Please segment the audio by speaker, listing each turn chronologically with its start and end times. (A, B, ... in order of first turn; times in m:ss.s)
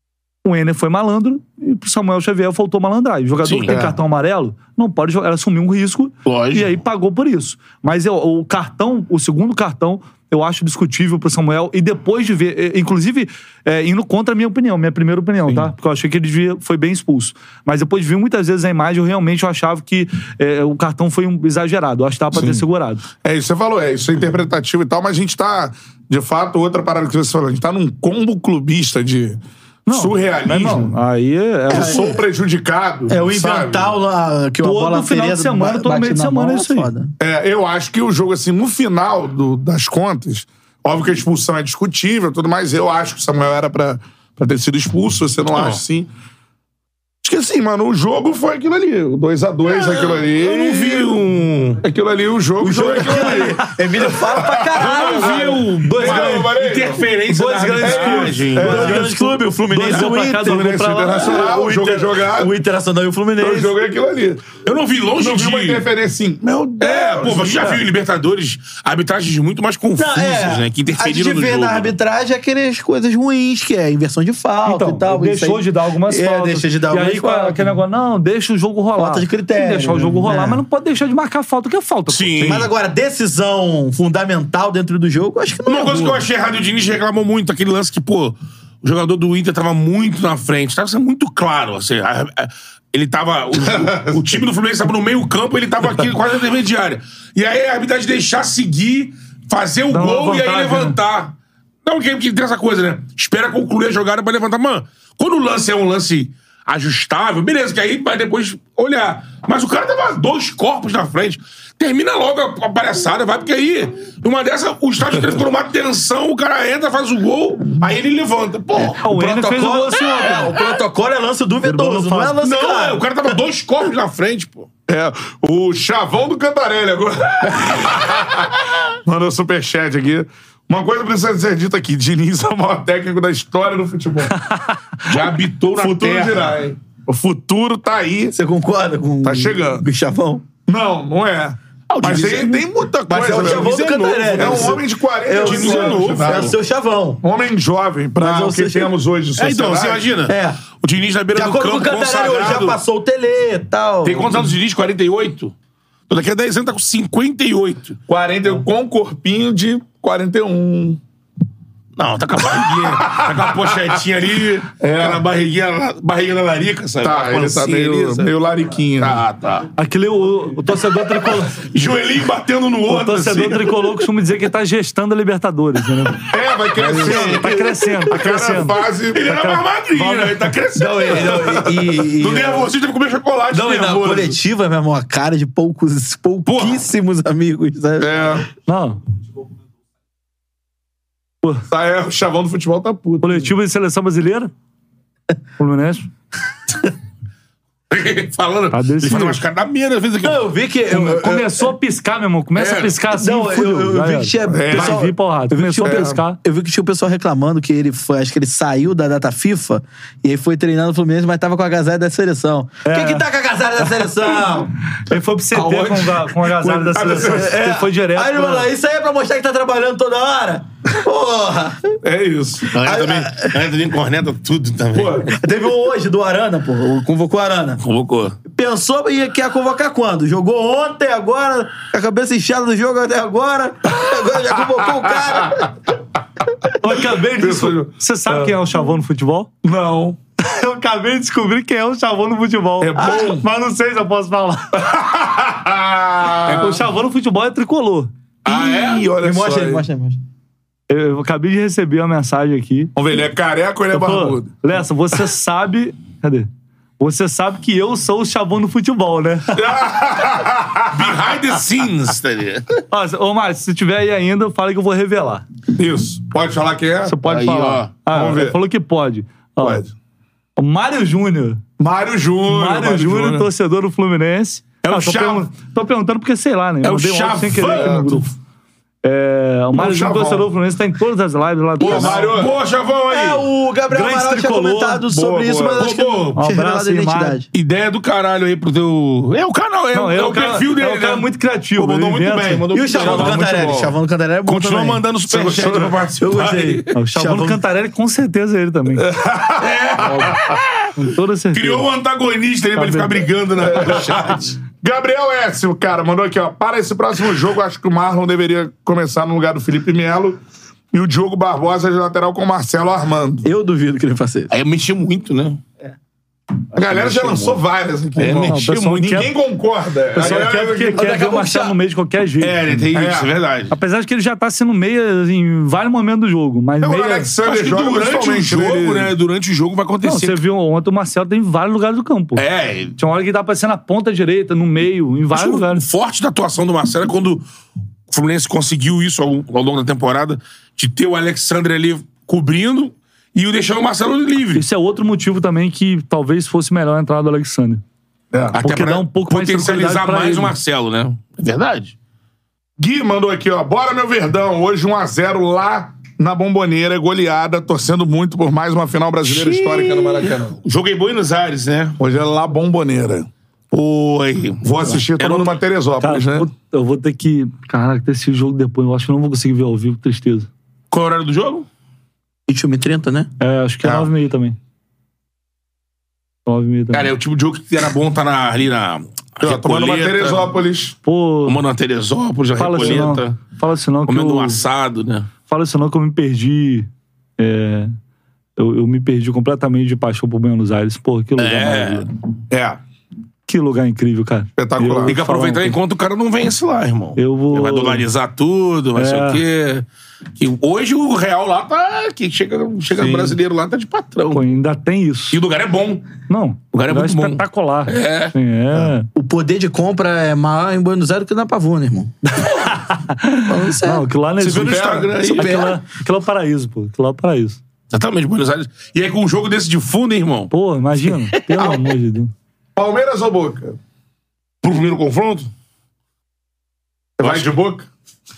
0:00.4-0:23.0 A
0:03.4-0:03.8 B
0:03.7-0:04.0 C
0:06.2-0:06.8 B
0:22.3-0:22.6 C
0:23.2-0:30.9 C
0:29.8-0:32.1 A
0:31.7-0:34.0 C
0:31.7-0:32.2 D
0:33.1-0:37.1 D
0:34.6-0:36.9 A
0:37.2-0:46.1 C
0:45.5-0:45.8 B
0:47.2-0:51.1 C
0:49.6-0:51.8 B
0:51.8-0:57.0 C
0:52.6-0:56.5 D
0:54.7-0:59.0 B
0:57.2-1:01.5 A
0:57.8-0:59.0 C
0:58.6-1:03.7 D
1:00.4-1:02.5 C
1:03.4-1:04.6 C
1:04.6-1:05.8 B
1:05.2-1:07.8 C
1:06.8-1:11.9 B
1:10.0-1:17.6 D
1:14.6-1:22.6 A
1:19.0-1:20.6 D
1:22.1-1:22.7 B
1:22.4-1:26.2 D
1:25.6-1:59.0 B
1:33.7-1:34.2 C
1:39.9-1:41.0 A
1:58.7-2:03.0 D
1:59.0-2:00.6 A
2:01.6-2:02.4 A
2:02.4-2:04.7 B
2:04.9-2:14.3 C
2:15.0-2:16.5 B
2:15.7-2:18.4 C
2:18.3-2:20.4 D
2:19.2-2:19.8 C
2:20.7-2:23.8 C
2:21.9-2:24.8 B
2:23.1-2:27.2 D
2:24.3-2:26.6 C
2:25.3-2:26.5 B
2:27.2-2:30.1 C
2:28.2-2:28.9 D
2:29.4-2:32.8 B
2:30.2-2:30.6 D
2:31.3-2:34.5 D
2:34.0-2:35.5 B
2:36.1-2:38.0 B
2:38.1-2:41.0 C
2:42.0-2:48.3 B
2:42.6-2:43.9 C
2:44.8-2:45.2 C
2:47.0-2:49.2 C
2:49.0-2:49.7 B
2:49.8-2:51.6 A
2:51.5-2:53.9 B
2:52.9-2:56.3 A
2:56.3-2:59.2 C
2:56.8-2:57.5 B
2:56.9-3:00.5 A
2:56.9-2:57.6 D
2:59.1-3:04.4 B
3:00.7-3:02.7 D
3:01.1-3:02.0 C
3:03.5-3:08.2 D
3:06.4-3:06.8 B
3:08.0-3:08.5 C
3:08.7-3:09.0 A
3:11.7-3:13.5 C
3:13.2-3:14.5 A
3:15.6-3:16.1 A
3:17.9-3:20.5 B
3:18.7-3:19.4 A
3:20.2-3:21.7 D
3:20.9-3:26.4 A
3:22.6-3:23.0 B
3:23.1-3:34.7 D
3:24.5-3:25.1 C
3:25.8-3:26.2 C
3:32.8-3:33.2 A
3:35.0-3:38.7 A
3:35.5-3:41.9 D
3:36.9-3:37.8 C
3:42.0-3:42.7 C
3:42.7-3:45.3 B
3:42.7-3:43.6 D
3:44.9-3:45.3 C
3:45.3-3:47.8 D
3:47.8-3:48.4 B
3:48.5-3:55.7 D
3:54.4-3:55.7 C
3:56.8-3:59.5 A
3:56.8-3:58.6 C
3:59.6-4:00.2 C
4:00.4-4:04.8 A
4:02.8-4:03.4 C
4:03.0-4:03.2 D
4:04.8-4:06.8 C
4:06.4-4:08.1 A
4:08.4-4:09.0 B
4:08.4-4:09.8 C
4:09.2-4:10.2 D
4:10.9-4:12.9 A
4:13.0-4:14.5 C
4:13.9-4:16.5 A
4:17.0-4:19.7 A
4:19.5-4:21.4 C
4:20.9-4:22.6 B
4:22.9-4:25.4 A
4:25.8-4:27.2 C
4:27.0-4:29.8 A
4:27.2-4:27.9 B
4:28.1-4:28.6 C
4:29.6-4:29.9 C
4:30.6-4:31.6 A
4:31.8-4:33.5 C
4:32.5-4:38.3 A
4:34.8-4:35.5 B
4:36.8-4:38.0 B
4:37.5-4:38.2 C
4:39.0-4:42.3 A
4:39.7-4:40.5 C
4:41.8-4:42.6 C
4:41.8-4:43.5 B
4:43.1-4:47.5 D
4:43.9-4:45.0 A
4:45.1-4:45.9 C
4:45.8-4:46.4 B
4:46.3-4:47.4 A
4:47.5-4:53.9 B
4:49.9-4:53.8 A
4:52.7-4:55.0 D
4:54.4-4:56.9 B
4:55.3-4:56.0 C
4:56.2-4:57.6 D
4:56.9-4:59.1 A
4:59.0-5:00.6 C
4:59.6-5:00.9 B
5:01.0-5:01.9 A
5:01.5-5:04.5 B
5:02.8-5:03.3 A
5:03.6-5:10.4 C
5:10.9-5:13.5 C
5:13.4-5:14.5 D
5:14.5-5:15.6 B
5:16.7-5:17.6 B
5:16.7-5:21.1 C
5:18.2-5:19.2 B
5:18.4-5:19.3 A
5:20.1-5:22.6 A
5:20.2-5:21.8 D
5:22.4-5:23.7 B
5:22.9-5:23.3 C
5:23.7-5:27.3 A
5:26.8-5:29.1 C
5:27.4-5:30.4 B
5:30.0-5:32.4 A
5:32.4-5:33.0 B
5:33.0-5:35.8 A
5:35.3-5:37.4 B
5:38.1-5:44.6 B
5:44.5-5:47.8 A
5:48.3-5:48.6 C
5:48.5-5:51.9 B
5:48.5-5:50.5 A
5:52.8-6:00.6 C
5:59.2-6:02.0 B
6:02.0-6:03.3 C
6:03.7-6:05.5 B
6:04.6-6:06.5 C
6:06.0-6:10.5 A
6:10.9-6:11.6 B
6:12.5-6:13.3 D
6:13.4-6:14.6 A
6:16.4-6:17.1 A
6:16.9-6:20.5 B
6:19.4-6:20.9 C
6:21.0-6:21.6 A
6:21.4-6:23.4 B
6:22.6-6:24.6 A
6:24.1-6:25.3 B
6:25.5-6:26.9 A
6:27.4-6:27.9 A
6:28.6-6:32.1 A
6:31.4-6:32.1 B
6:32.5-6:32.8 C
6:33.5-6:35.8 A
6:34.6-6:35.2 C
6:35.0-6:39.8 B
6:37.2-6:38.0 A
6:39.0-6:39.4 A
6:40.4-6:44.4 B
6:43.0-6:43.3 C
6:44.3-6:45.4 A
6:45.3-6:46.0 B
6:46.3-6:49.1 A
6:46.7-6:48.3 B
6:49.1-6:52.1 D
6:52.4-6:57.6 A
6:53.5-6:54.1 D
6:54.4-6:55.7 B
6:54.5-6:55.2 C
6:55.2-6:55.8 D
6:57.9-7:00.5 B
7:00.5-7:02.3 A
7:02.8-7:03.8 C
7:04.6-7:05.5 B
7:07.2-7:07.9 C
7:07.2-7:07.5 B